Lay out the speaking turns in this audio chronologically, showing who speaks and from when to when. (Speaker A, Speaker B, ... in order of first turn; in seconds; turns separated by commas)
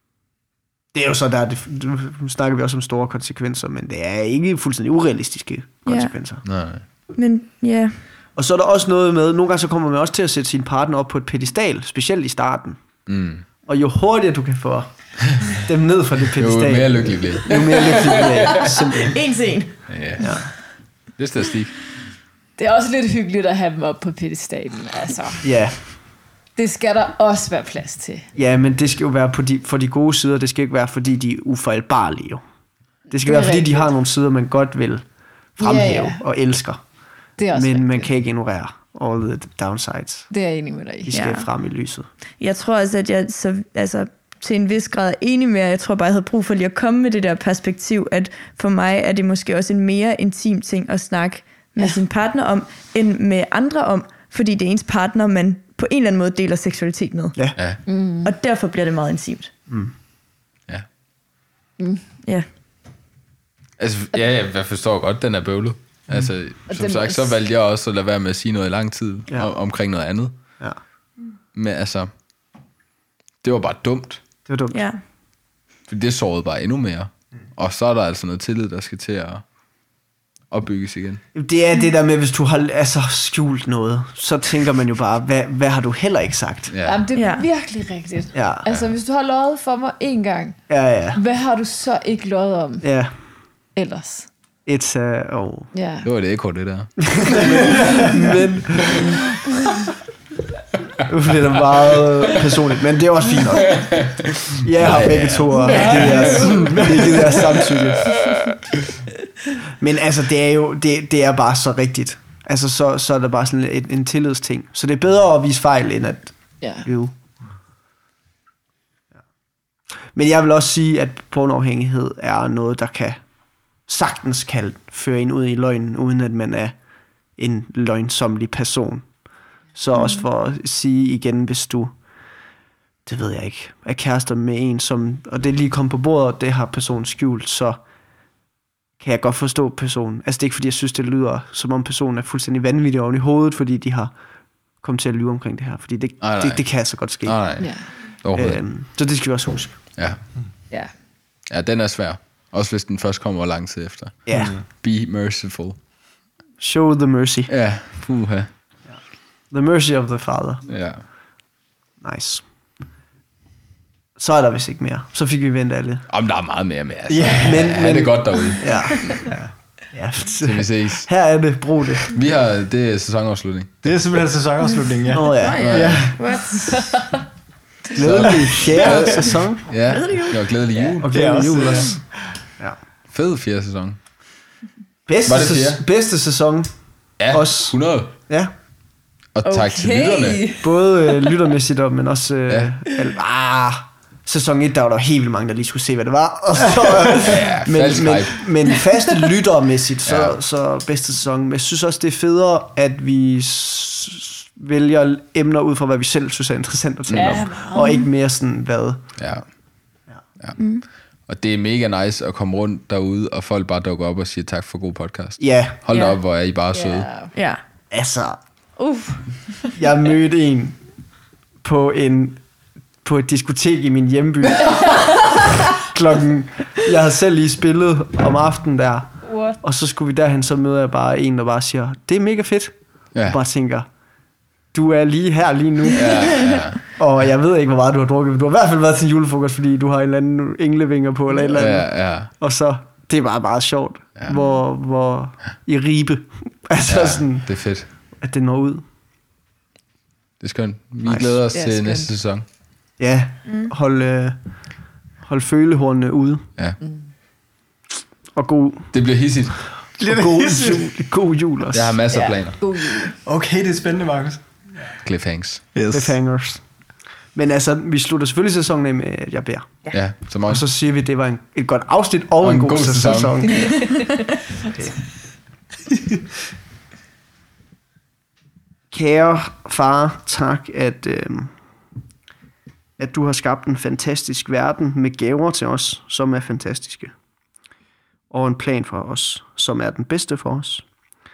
Speaker A: 0.9-6.5, Speaker B: 5.8-8.0, Speaker C: 6.4-6.8, Speaker A: 8.3-13.1, Speaker C: 13.1-13.4, Speaker A: 13.6-19.2, Speaker C: 16.4-18.1, Speaker B: 18.6-20.3, Speaker C: 19.9-21.9, Speaker A: 20.2-20.5, Speaker D: 22.6-26.0, Speaker A: 25.4-26.0, Speaker D: 26.6-28.3, Speaker A: 28.3-40.3, Speaker D: 33.1-33.9, Speaker D: 35.6-36.2, Speaker D: 37.4-38.1, Speaker D: 40.3-41.1, Speaker A: 41.0-42.1, Speaker B: 41.1-41.5, Speaker B: 42.4-59.5, Speaker C: 57.5-57.9, Speaker D: 57.8-58.3, Speaker A: 59.7-59.9, Speaker D: 61.8-62.0, Speaker B: 62.2-62.5, Speaker C: 63.8-70.6, Speaker D: 66.7-67.4, Speaker A: 69.3-69.5, Speaker C: 71.5-72.1, Speaker C: 73.4-74.3, Speaker A: 74.5-74.8, Speaker B: 74.7-75.0, Speaker C: 75.9-79.5, Speaker C: 80.5-81.2, Speaker A: 81.3-86.8, Speaker C: 86.7-87.0, Speaker D: 86.8-94.3, Speaker B: 87.1-87.5, Speaker A: 88.3-88.6, Speaker C: 88.7-88.9, Speaker A: 90.7-91.2, Speaker A: 92.8-93.2, Speaker A: 94.6-95.7, Speaker D: 95.7-96.1, Speaker C: 96.0-97.4, Speaker A: 97.2-99.1, Speaker A: 101.0-108.1, Speaker C: 104.9-106.7, Speaker D: 105.5-107.3, Speaker E: 106.7-107.0, Speaker A: 109.7-117.2, Speaker D: 116.6-116.9, Speaker A: 120.1-132.4, Speaker B: 129.9-130.3, Speaker A: 133.1-137.8, Speaker A: 139.0-149.9, Speaker C: 146.2-148.7, Speaker D: 147.6-147.9, Speaker C: 149.9-155.8, Speaker A: 154.2-154.6, Speaker E: 154.3-154.7, Speaker A: 156.6-157.5, Speaker C: 157.5-158.5, Speaker A: 158.8-160.7, Speaker C: 160.7-161.1, Speaker A: 162.0-162.5, Speaker A: 164.2-166.1, Speaker C: 166.1-169.0, Speaker E: 167.1-167.7, Speaker A: 167.4-172.1, Speaker E: 169.3-169.5, Speaker C: 170.4-174.1, Speaker E: 173.8-176.8, Speaker A: 175.1-176.1, Speaker B: 175.4-176.8, Speaker C: 175.6-176.1, Speaker D: 176.6-177.0, Speaker A: 177.9-179.7, Speaker C: 177.9-181.4, Speaker E: 178.2-179.2, Speaker B: 179.8-180.6, Speaker A: 181.0-182.8, Speaker E: 181.1-182.1, Speaker C: 183.1-184.1, Speaker A: 185.1-188.5, Speaker C: 185.3-185.8, Speaker C: 187.2-188.2, Speaker C: 189.3-190.6, Speaker D: 189.4-190.9, Speaker A: 190.6-209.3, Speaker C: 197.2-198.8, Speaker C: 200.1-200.4, Speaker C: 207.1-207.5, Speaker D: 207.1-207.9, Speaker B: 207.7-208.1, Speaker C: 209.2-217.3, Speaker B: 210.6-210.8, Speaker A: 215.4-215.8, Speaker B: 215.9-216.2, Speaker D: 216.7-217.3, Speaker B: 217.3-217.6, Speaker A: 217.9-218.4, Speaker D: 218.8-219.6, Speaker A: 219.8-225.2, Speaker A: 225.8-233.9, Speaker D: 229.3-229.6, Speaker A: 234.7-248.9, Speaker C: 235.9-236.8, Speaker C: 241.5-242.3, Speaker B: 244.3-244.6, Speaker C: 246.9-247.9, Speaker C: 250.4-252.4, Speaker A: 251.1-251.4, Speaker D: 251.5-252.2, Speaker A: 253.0-256.5, Speaker B: 253.4-253.7, Speaker D: 256.8-257.1, Speaker A: 258.3-259.1, Speaker C: 258.9-259.9, Speaker A: 259.9-262.0, Speaker E: 260.0-260.8, Speaker C: 261.7-262.8, Speaker D: 262.1-263.1, Speaker E: 263.2-264.9, Speaker C: 265.0-265.6, Speaker E: 265.7-266.3, Speaker A: 265.9-274.0, Speaker C: 269.9-270.7, Speaker C: 272.4-273.7, Speaker D: 273.6-274.1, Speaker A: 274.7-275.0, Speaker A: 278.9-281.7, Speaker A: 283.0-287.2, Speaker A: 288.3-290.9